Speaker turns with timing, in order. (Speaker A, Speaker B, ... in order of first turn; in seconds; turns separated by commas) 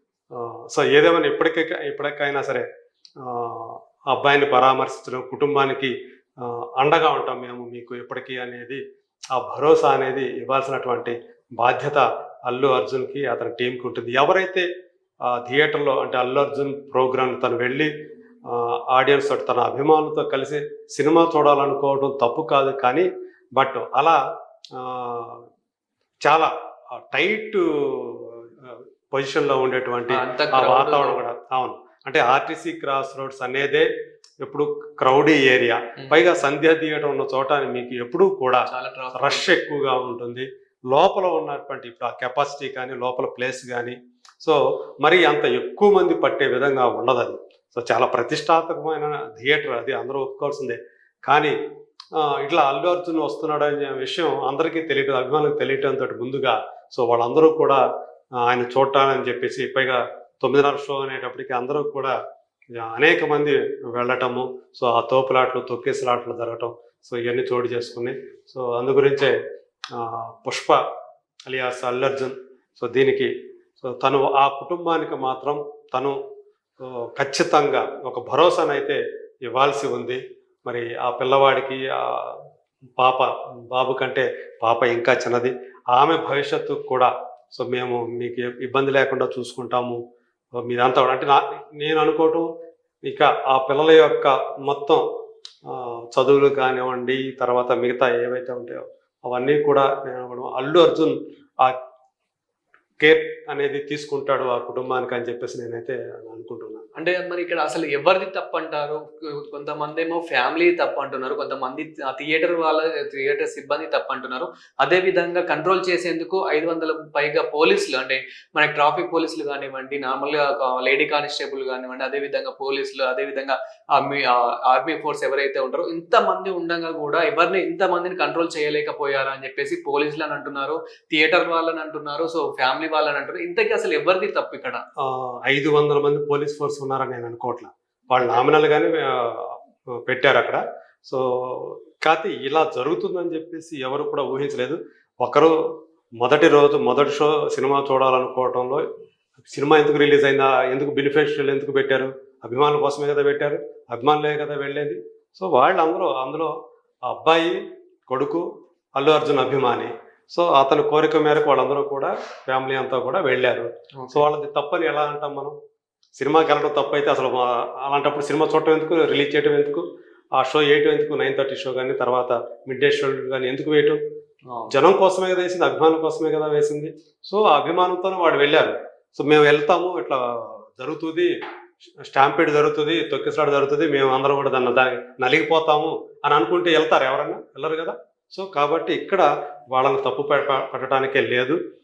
Speaker A: 0.3-2.7, Speaker A: 3.2-8.8, Speaker A: 9.3-14.7, Speaker A: 15.3-17.9, Speaker A: 18.5-24.2, Speaker A: 24.8-25.4, Speaker A: 26.2-26.5, Speaker A: 27.1-33.9, Speaker B: 30.1-31.2, Speaker A: 34.4-51.5, Speaker B: 36.0-36.3, Speaker B: 38.7-39.5, Speaker A: 52.2-57.8, Speaker A: 58.4-62.1, Speaker A: 62.8-69.3, Speaker A: 69.9-70.8, Speaker A: 71.5-73.3, Speaker A: 73.8-76.2, Speaker A: 76.8-82.4, Speaker A: 83.0-90.0, Speaker A: 90.6-92.5, Speaker A: 93.0-95.0, Speaker A: 95.7-101.8, Speaker A: 103.0-106.8, Speaker B: 107.0-134.8, Speaker A: 135.0-145.5, Speaker A: 146.2-148.8, Speaker A: 149.4-156.5, Speaker A: 157.1-158.4, Speaker A: 159.0-165.6, Speaker B: 164.0-164.2, Speaker A: 166.2-169.8, Speaker A: 170.4-174.0, Speaker B: 174.5-174.7, Speaker A: 174.7-181.3, Speaker A: 182.0-191.6